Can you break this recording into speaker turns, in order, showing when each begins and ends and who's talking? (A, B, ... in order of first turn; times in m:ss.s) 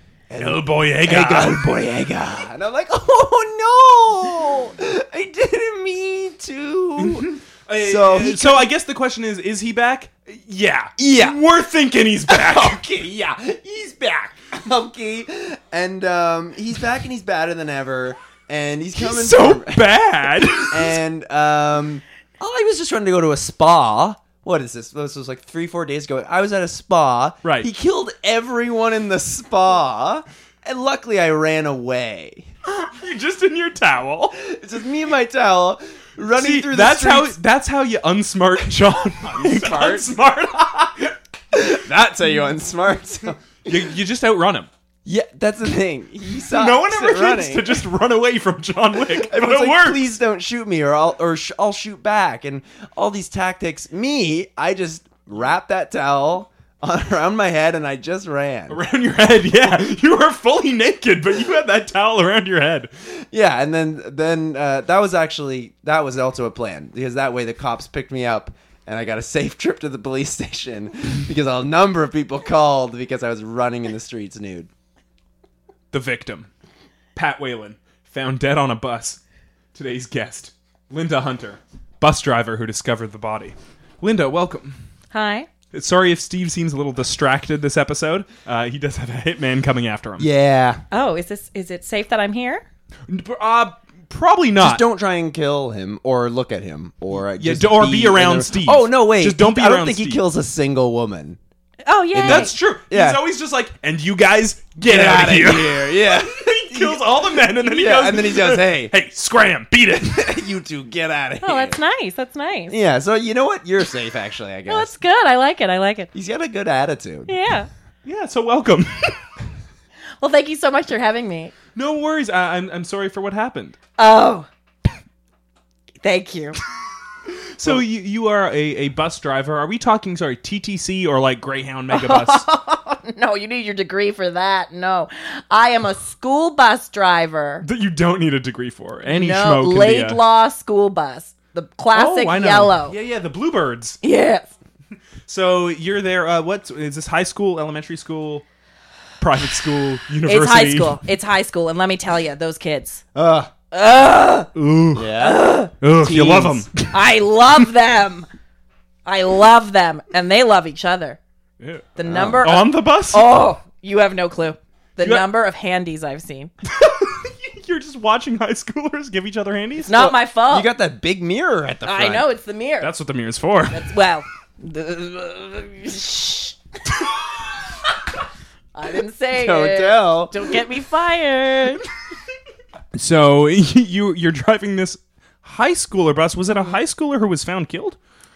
0:00.3-0:08.7 A
0:00.4-0:01.7 B
0:07.0-0:12.8 B
0:11.0-0:11.4 A
0:12.3-0:32.5 A
0:19.0-0:21.0 B
0:27.4-0:27.7 B
0:32.6-0:34.4 B
0:34.4-0:37.4 A
0:36.4-0:41.2 B
0:39.3-0:40.1 A
0:41.5-0:43.8 A
0:43.6-0:44.7 B
0:45.0-0:47.8 A
0:46.5-0:50.0 B
0:49.1-0:58.8 A
0:58.7-1:02.9 B
1:03.2-1:14.7 A
1:15.9-1:16.5 B
1:17.2-1:19.2 B
1:19.8-1:24.8 B
1:25.1-1:25.5 C
1:25.7-1:30.3 B
1:30.2-1:30.8 A
1:30.9-1:32.6 C
1:33.1-1:34.8 B
1:34.6-1:41.4 A
1:37.4-1:40.2 B
1:41.8-1:42.5 C
1:42.1-1:43.2 A
1:42.2-1:50.5 B
1:44.8-1:48.9 A
1:50.1-1:51.8 A
1:51.4-1:52.8 C
1:52.7-1:54.9 A
1:54.7-1:56.1 C
1:56.1-1:57.3 A
1:57.3-1:57.7 C
1:58.0-1:59.2 B
2:00.2-2:01.5 C
2:01.8-2:03.8 B
2:04.0-2:04.5 C
2:06.0-2:06.6 C
2:07.6-2:12.5 B
2:11.9-2:17.6 C
2:17.6-2:20.2 B
2:19.1-2:23.0 C
2:21.9-2:24.0 B
2:24.0-2:24.5 C
2:25.3-2:28.5 B
2:29.2-2:31.0 B
2:30.3-2:33.0 C
2:33.2-2:33.5 A
2:33.7-2:34.5 C
2:34.6-2:35.1 B
2:35.0-2:36.7 A
2:35.2-2:35.7 C
2:35.8-2:36.9 B
2:36.9-2:38.3 C
2:39.1-2:41.2 C
2:41.6-2:41.9 B
2:42.0-2:46.5 C
2:42.1-2:42.5 A
2:42.4-2:43.4 B
2:46.7-2:49.9 B
2:49.9-2:50.7 C
2:49.9-2:52.3 A
2:51.8-2:52.9 C
2:52.8-2:53.9 B
2:53.7-2:56.6 C
2:58.7-3:01.8 C
2:59.3-3:00.4 A
3:03.0-3:08.0 B
3:06.5-3:06.8 C